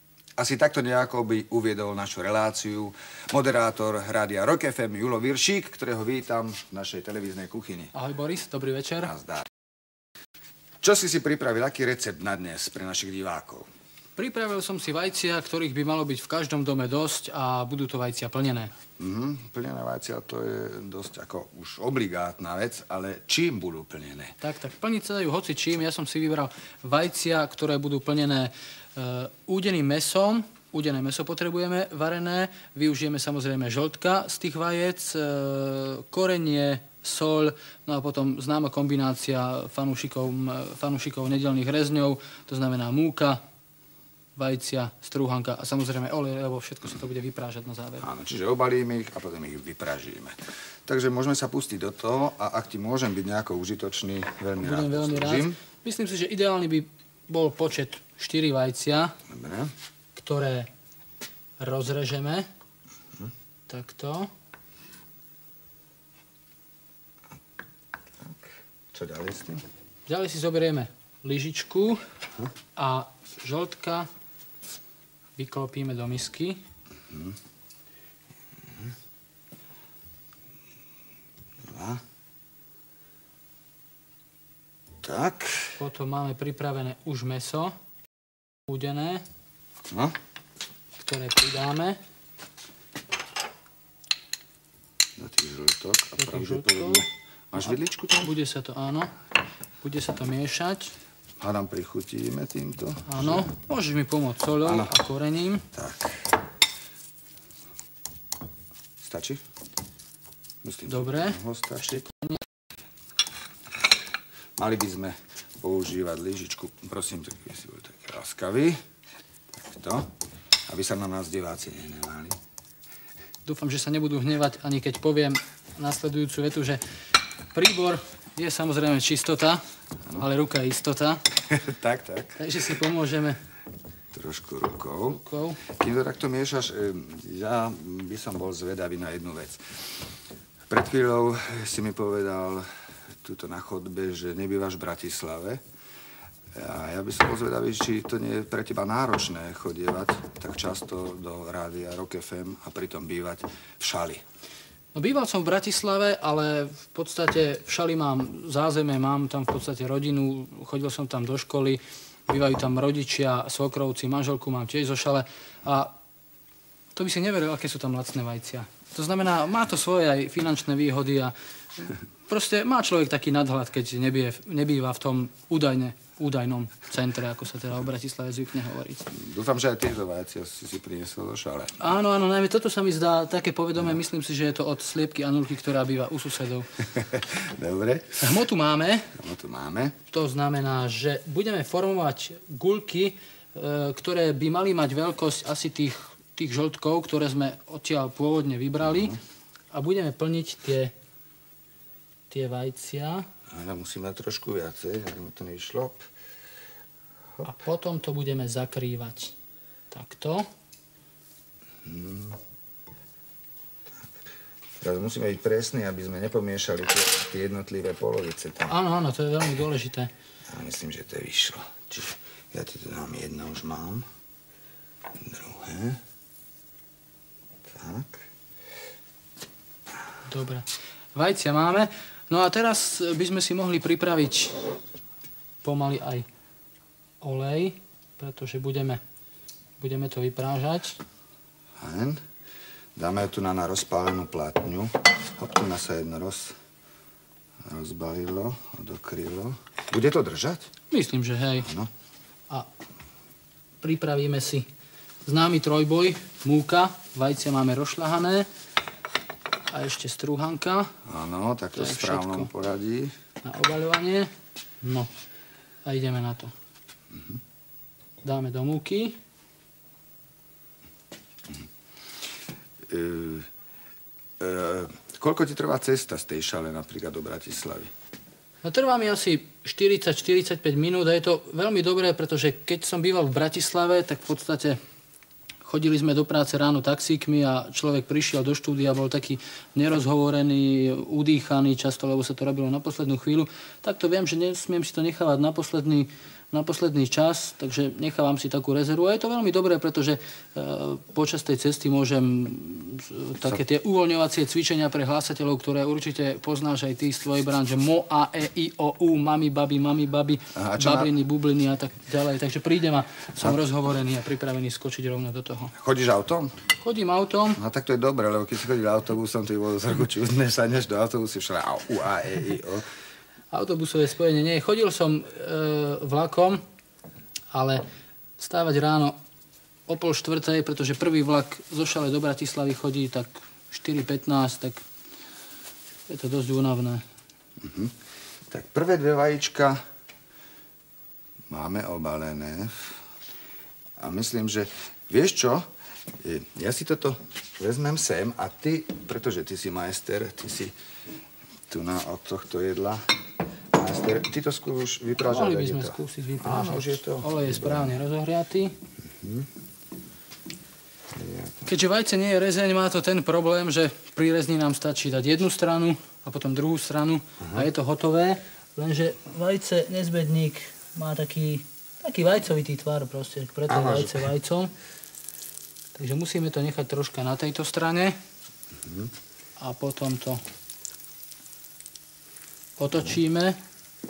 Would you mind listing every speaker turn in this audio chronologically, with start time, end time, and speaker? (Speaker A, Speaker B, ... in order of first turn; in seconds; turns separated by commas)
Speaker A: 0.4-7.9, Speaker B: 7.9-9.1, Speaker A: 9.0-9.5, Speaker A: 10.8-13.7, Speaker B: 14.2-18.7, Speaker A: 19.0-24.3, Speaker B: 24.4-43.4, Speaker B: 44.4-48.0, Speaker A: 48.0-55.6, Speaker B: 54.6-59.2, Speaker A: 59.3-59.7, Speaker B: 60.1-60.7, Speaker B: 61.6-62.5, Speaker B: 63.7-64.3, Speaker A: 68.2-69.6, Speaker B: 70.1-72.0, Speaker B: 72.8-74.1, Speaker B: 75.4-76.6, Speaker A: 77.1-77.3, Speaker A: 81.7-82.0, Speaker A: 85.0-85.8, Speaker B: 85.8-87.7, Speaker B: 88.7-89.2, Speaker B: 91.0-92.0, Speaker A: 95.2-98.3, Speaker B: 96.2-97.0, Speaker B: 97.5-99.1, Speaker B: 99.8-100.9, Speaker A: 101.4-103.5, Speaker B: 103.1-105.7, Speaker A: 104.6-104.9, Speaker A: 105.7-106.3, Speaker A: 109.0-109.4, Speaker A: 110.6-112.0, Speaker B: 110.9-112.4, Speaker A: 114.6-118.8, Speaker A: 119.5-120.1, Speaker A: 120.7-122.4, Speaker B: 123.4-126.8, Speaker B: 127.5-129.6, Speaker B: 130.1-131.2, Speaker A: 131.5-132.4, Speaker B: 132.4-133.4, Speaker A: 134.1-139.6, Speaker B: 135.1-135.6, Speaker A: 140.7-142.7, Speaker A: 143.2-145.6, Speaker A: 146.5-154.2, Speaker B: 154.9-165.9, Speaker B: 166.9-179.1, Speaker A: 179.1-181.8, Speaker B: 181.8-186.7, Speaker A: 186.8-188.3, Speaker B: 188.2-189.1, Speaker A: 189.1-189.9, Speaker B: 190.1-199.2, Speaker A: 198.8-199.2, Speaker B: 199.7-200.9, Speaker B: 202.3-203.2, Speaker A: 203.5-206.1, Speaker B: 207.4-209.3, Speaker B: 209.9-210.5, Speaker A: 211.8-212.4, Speaker A: 214.8-218.7, Speaker B: 218.7-220.1, Speaker A: 220.5-224.1, Speaker A: 225.2-226.0, Speaker A: 227.7-228.2, Speaker B: 230.2-234.6, Speaker B: 235.6-236.2, Speaker B: 237.2-239.0, Speaker B: 239.8-241.0, Speaker A: 241.8-242.2, Speaker A: 242.9-246.6, Speaker A: 247.7-250.7, Speaker B: 250.9-251.7, Speaker A: 251.6-251.9, Speaker B: 253.8-254.7, Speaker B: 255.2-258.5, Speaker B: 259.7-260.9, Speaker A: 261.1-263.1, Speaker B: 261.7-262.5, Speaker B: 263.4-264.3, Speaker B: 264.8-265.1, Speaker B: 265.8-266.5, Speaker A: 267.1-267.4, Speaker B: 268.2-269.1, Speaker A: 272.9-273.5, Speaker A: 274.4-277.9, Speaker B: 278.6-284.8, Speaker B: 285.6-315.7, Speaker A: 310.5-311.1, Speaker A: 315.7-316.6, Speaker B: 316.8-317.6, Speaker A: 317.6-322.8, Speaker B: 323.5-326.6, Speaker B: 327.5-327.8, Speaker B: 328.4-329.1, Speaker B: 329.9-334.8, Speaker B: 336.1-337.0, Speaker A: 337.6-337.9, Speaker A: 338.5-339.8, Speaker A: 341.5-342.9, Speaker A: 344.0-345.6, Speaker A: 346.2-350.7, Speaker A: 351.7-353.0, Speaker A: 353.7-357.9, Speaker B: 355.2-358.7, Speaker A: 359.2-359.5, Speaker A: 361.1-361.5, Speaker B: 361.6-374.7, Speaker A: 367.4-367.7, Speaker A: 373.7-374.3, Speaker B: 375.9-378.1, Speaker A: 378.8-379.1, Speaker B: 379.6-380.4, Speaker B: 382.8-383.6